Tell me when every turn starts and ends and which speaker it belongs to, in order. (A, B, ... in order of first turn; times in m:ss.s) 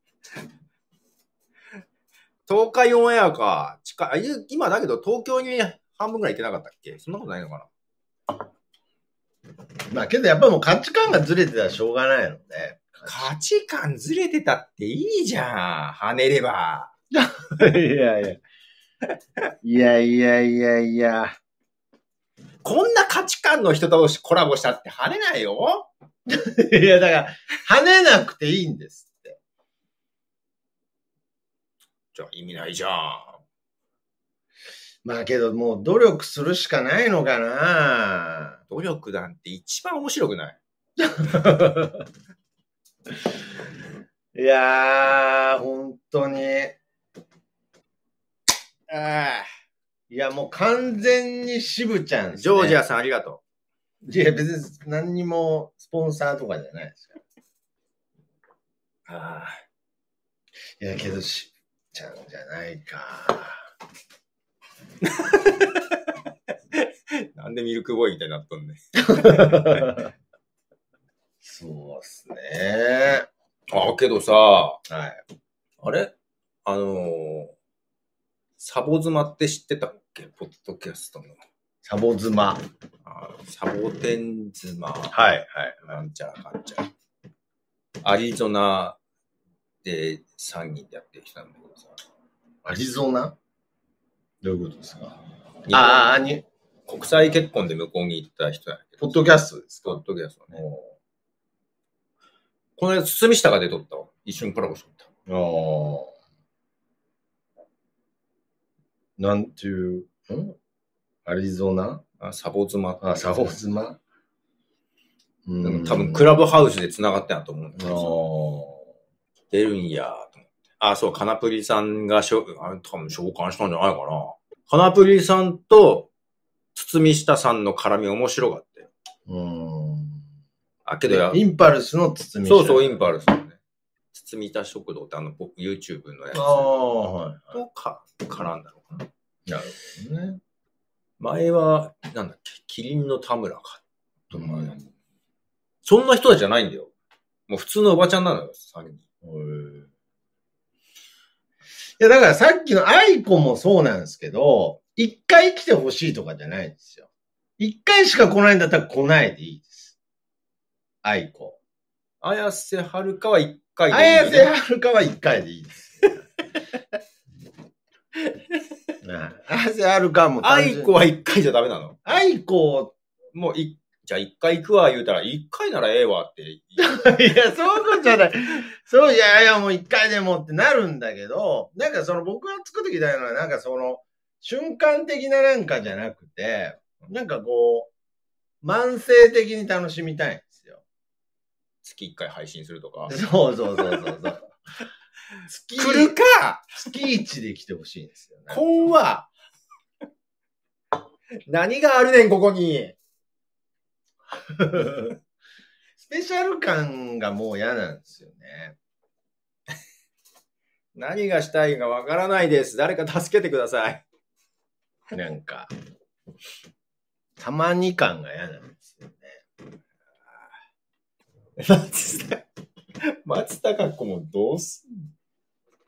0:02.5-0:07.7 A
0:09.9-0:13.3 B
0:13.0-0:16.9 A
0:17.1-0:18.4 B
0:19.6-0:21.3 B
0:22.6-0:25.9 A
0:26.3-0:29.4 B
0:32.1-0:33.4 A
0:35.0-0:38.6 B
0:38.7-0:40.6 A
0:41.0-0:42.0 B
0:44.3-0:46.8 B
0:48.9-0:49.4 A
0:50.1-0:52.8 B
0:52.3-0:53.4 A
0:54.0-0:57.1 B
0:59.1-0:59.6 A
1:00.8-1:03.6 B
1:05.0-1:06.2 A
1:06.7-1:09.9 A
1:09.0-1:10.1 B
1:11.4-1:13.3 B
1:13.7-1:14.8 A
1:14.9-1:15.2 B
1:15.8-1:16.1 A
1:16.6-1:17.5 A
1:18.6-1:21.4 A
1:21.8-1:22.6 B
1:23.0-1:25.1 A
1:25.1-1:25.9 B
1:25.8-1:26.9 A
1:28.0-1:29.0 A
1:29.8-1:31.9 A
1:32.6-1:33.3 B
1:34.4-1:35.2 B
1:35.7-1:36.1 A
1:35.7-1:36.4 B
1:36.9-1:39.2 A
1:39.0-1:40.0 B
1:39.8-1:40.6 A
1:40.5-1:40.9 B
1:42.8-1:45.1 A
1:45.3-1:46.1 B
1:49.2-1:50.5 B
1:51.2-1:52.0 B
1:52.2-1:53.5 A
1:53.0-1:54.0 B
1:55.4-1:56.3 B
1:55.6-1:58.1 A
1:57.8-1:58.8 B
1:59.5-2:06.1 A
2:06.7-2:08.9 A
2:09.3-2:10.2 B
2:10.8-2:11.4 A
2:11.1-2:13.0 B
2:12.4-2:13.6 A
2:14.1-2:16.7 A
2:16.3-2:17.6 B
2:17.5-2:19.1 A
2:19.5-2:20.4 B
2:21.2-2:24.7 A
2:24.3-2:24.8 B
2:25.8-2:26.9 A
2:27.5-2:29.0 A
2:29.2-2:29.9 B
2:32.0-2:37.0 B
2:37.6-2:39.9 B
2:41.0-2:41.6 B
2:42.2-2:44.5 A
2:43.9-2:46.2 B
2:48.2-2:48.6 A
2:49.0-2:50.9 B
2:50.4-2:52.0 A
2:52.0-2:52.9 B
2:53.3-2:56.9 A
2:56.8-3:07.9 B
3:08.6-3:10.8 B
3:11.8-3:13.1 A
3:13.1-3:14.5 B
3:15.5-3:16.2 B
3:15.8-3:16.8 A
3:16.7-3:18.9 B
3:18.5-3:19.3 A
3:21.5-3:23.0 A
3:24.5-3:25.2 B
3:26.0-3:28.8 B
3:30.9-3:34.0 A
3:35.1-3:35.7 B
3:37.4-3:39.4 B
3:41.6-3:42.4 A
3:43.2-3:45.1 A